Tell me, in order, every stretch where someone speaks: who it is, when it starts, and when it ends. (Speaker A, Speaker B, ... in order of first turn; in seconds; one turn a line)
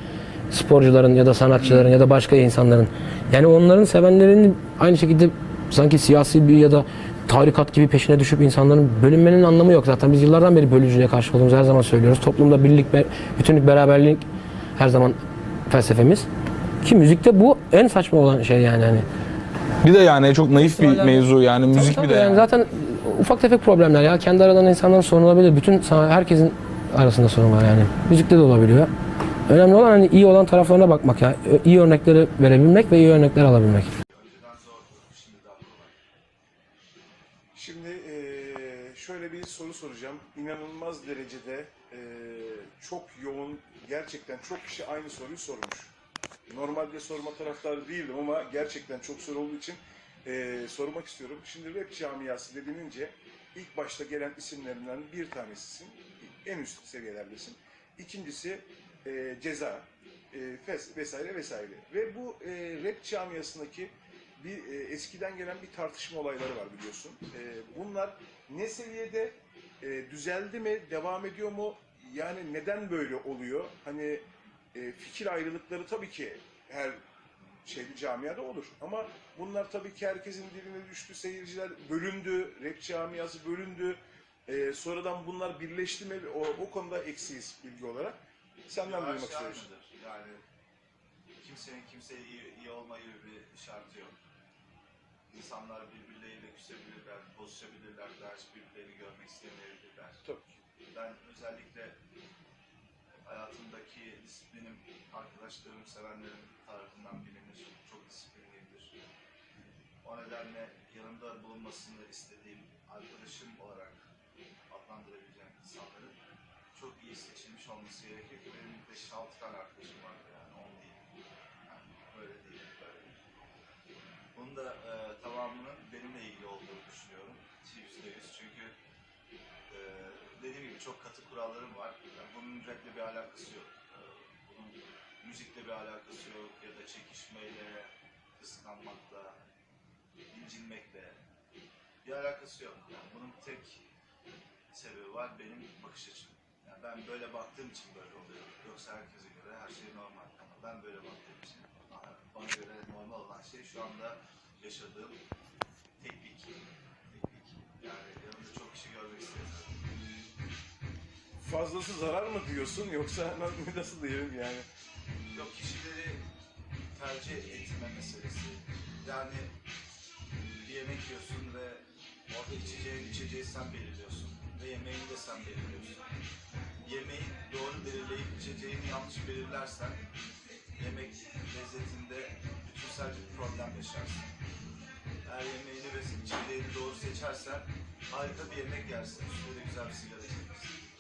Speaker A: 0.5-14.2
Speaker A: 14.8-16.3
Speaker A: 16.8-19.1
Speaker B: 19.8-22.4
Speaker A: 20.6-28.9
Speaker A: 29.5-33.9
Speaker C: 34.1-36.0
Speaker D: 37.5-45.9
Speaker D: 46.5-77.0
Speaker D: 77.6-89.7
Speaker C: 88.8-90.4
Speaker C: 91.4-94.2
Speaker C: 95.3-100.2
Speaker D: 100.2-100.6
Speaker C: 100.9-102.0
Speaker C: 103.2-109.0
Speaker C: 110.0-114.0
Speaker C: 114.7-116.2
Speaker C: 116.7-121.0
Speaker C: 121.7-123.2
Speaker C: 124.3-128.7
Speaker C: 129.7-139.4
Speaker C: 140.3-141.2
Speaker C: 142.0-143.8
Speaker C: 144.7-155.2
Speaker C: 156.0-159.8
Speaker D: 161.4-164.7
Speaker C: 165.3-166.2
Speaker C: 166.9-169.5
Speaker C: 170.6-176.0
Speaker C: 176.8-180.0
Speaker C: 180.8-184.3
Speaker C: 185.2-190.8